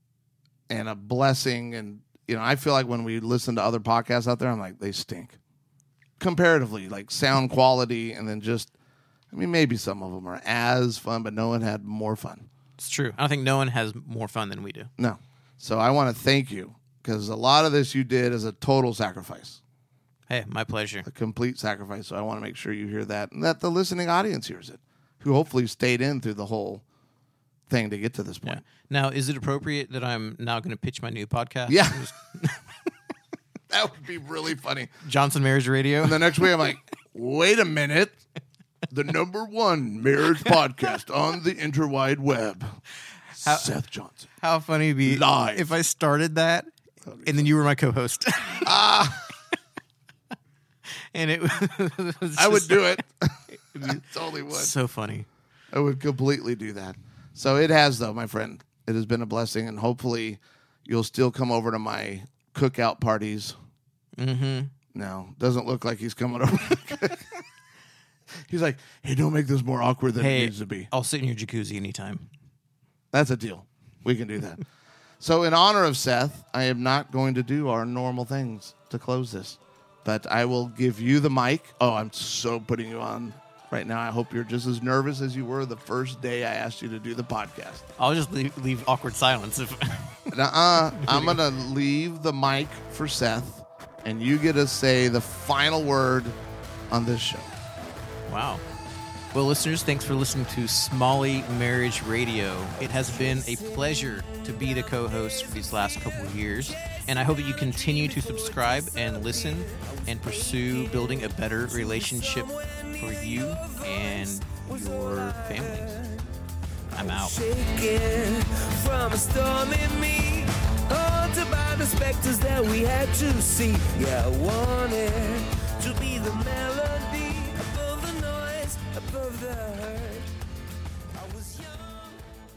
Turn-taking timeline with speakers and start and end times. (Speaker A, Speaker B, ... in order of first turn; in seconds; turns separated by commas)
Speaker A: 0.7-5.4, Speaker A: 6.2-8.7, Speaker A: 9.3-12.5, Speaker B: 12.8-14.9, Speaker A: 15.0-19.6, Speaker B: 20.3-21.1, Speaker A: 21.1-26.8, Speaker A: 27.7-28.6, Speaker B: 28.4-32.6, Speaker A: 31.7-32.1, Speaker A: 33.7-34.9, Speaker B: 35.0-36.5, Speaker A: 36.0-38.2, Speaker A: 38.9-42.8, Speaker A: 43.4-44.3, Speaker B: 43.4-43.7, Speaker B: 44.4-46.7, Speaker A: 45.0-45.7, Speaker A: 47.1-47.5, Speaker B: 47.2-48.7, Speaker A: 48.6-49.3, Speaker B: 51.1-53.0, Speaker A: 52.4-54.7, Speaker B: 54.5-55.3, Speaker A: 55.7-63.6, Speaker B: 64.2-64.7, Speaker A: 64.9-67.3, Speaker A: 68.5-70.9, Speaker B: 70.2-72.3, Speaker A: 73.1-74.6, Speaker A: 75.2-87.8, Speaker B: 88.0-90.3, Speaker A: 90.3-96.4, Speaker B: 90.9-91.4, Speaker A: 96.9-97.5, Speaker B: 98.3-98.6, Speaker B: 99.3-116.0, Speaker C: 102.8-116.3, Speaker B: 116.9-117.4, Speaker C: 116.9-130.3, Speaker C: 131.1-132.2